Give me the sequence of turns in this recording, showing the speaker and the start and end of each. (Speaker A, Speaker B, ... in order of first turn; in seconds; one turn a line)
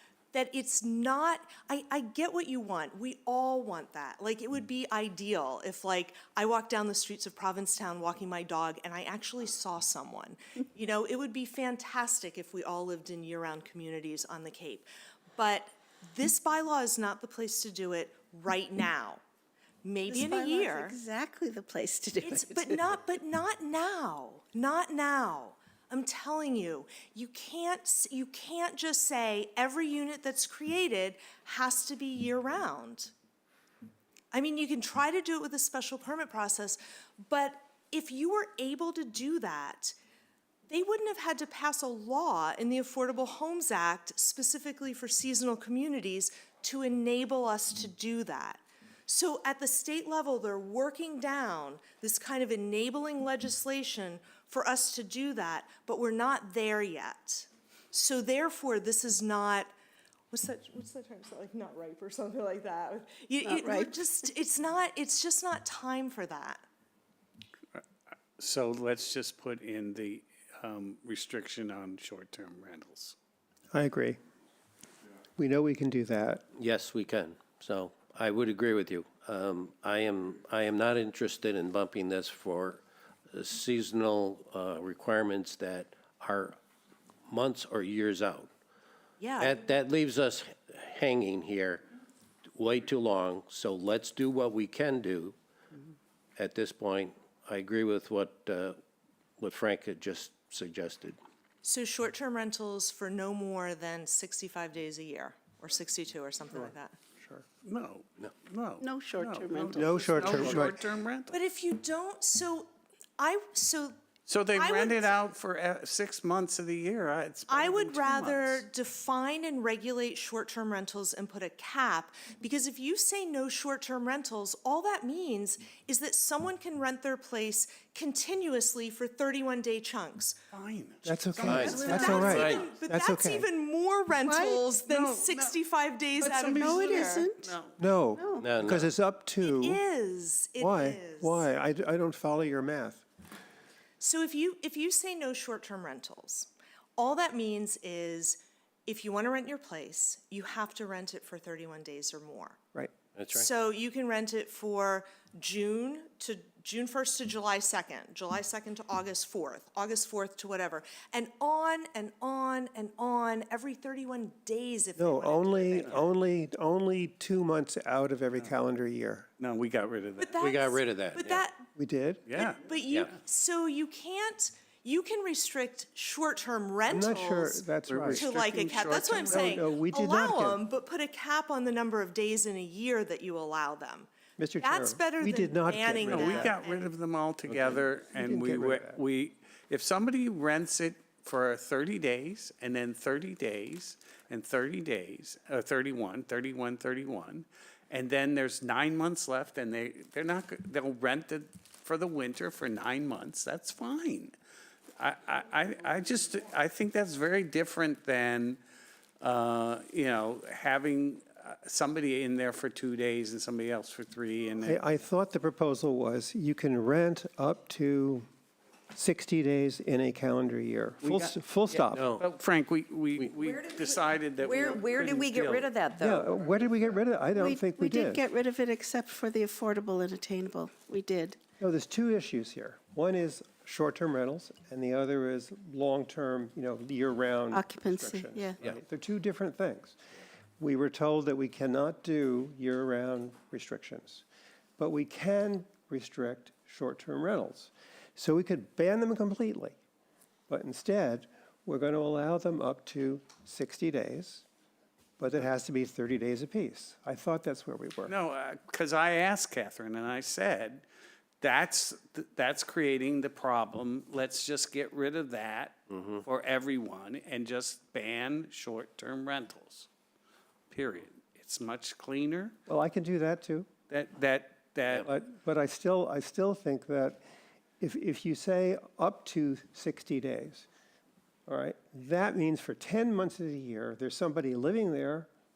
Speaker A: 0.3-19.2
Speaker A: 19.8-21.0
Speaker B: 20.1-22.8
Speaker A: 22.2-33.1
Speaker A: 34.3-40.0
Speaker A: 40.7-59.7
Speaker A: 60.3-66.6
Speaker B: 63.4-64.0
Speaker C: 68.4-73.2
Speaker D: 73.7-74.2
Speaker D: 75.4-76.5
Speaker E: 76.6-86.6
Speaker E: 87.3-88.5
Speaker A: 89.2-89.6
Speaker E: 89.4-91.8
Speaker E: 92.6-95.3
Speaker E: 96.4-98.8
Speaker E: 99.4-101.2
Speaker A: 101.6-107.0
Speaker D: 106.5-107.5
Speaker C: 107.6-111.3
Speaker B: 108.8-110.6
Speaker D: 109.8-110.8
Speaker A: 111.3-114.0
Speaker C: 114.3-118.7
Speaker A: 114.5-115.1
Speaker A: 117.5-130.4
Speaker C: 130.5-132.6
Speaker D: 131.1-133.5
Speaker E: 131.4-132.7
Speaker A: 131.6-137.3
Speaker F: 131.9-132.4
Speaker B: 134.3-134.6
Speaker C: 134.8-135.6
Speaker C: 136.2-137.8
Speaker B: 136.5-137.5
Speaker D: 137.8-139.8
Speaker B: 138.2-138.5
Speaker E: 138.4-138.9
Speaker A: 139.4-141.5
Speaker D: 140.6-143.1
Speaker A: 144.0-152.6
Speaker E: 153.2-153.5
Speaker A: 153.3-166.1
Speaker D: 165.0-169.3
Speaker C: 169.4-170.4
Speaker A: 170.2-171.7
Speaker E: 170.4-171.4
Speaker D: 171.8-172.2
Speaker C: 172.3-172.6
Speaker A: 172.3-184.1
Speaker D: 176.9-178.3
Speaker C: 177.9-179.6
Speaker D: 178.8-180.6
Speaker D: 184.4-186.5
Speaker A: 184.6-186.9
Speaker C: 186.1-204.3
Speaker D: 188.1-189.0
Speaker C: 205.0-208.6
Speaker C: 209.2-214.8
Speaker D: 214.6-218.3
Speaker D: 218.9-222.0
Speaker C: 221.0-225.8
Speaker E: 221.9-222.2
Speaker F: 223.3-226.3
Speaker D: 226.0-228.2
Speaker B: 227.3-231.4
Speaker D: 231.6-240.0
Speaker B: 237.5-238.6
Speaker D: 240.6-244.2
Speaker D: 244.8-249.8
Speaker D: 250.5-254.4
Speaker D: 255.2-258.1
Speaker C: 258.1-260.8
Speaker C: 261.4-269.9
Speaker C: 270.7-272.6
Speaker D: 272.7-273.7
Speaker C: 273.9-275.1
Speaker D: 275.0-277.2
Speaker D: 277.8-280.7
Speaker D: 281.5-285.3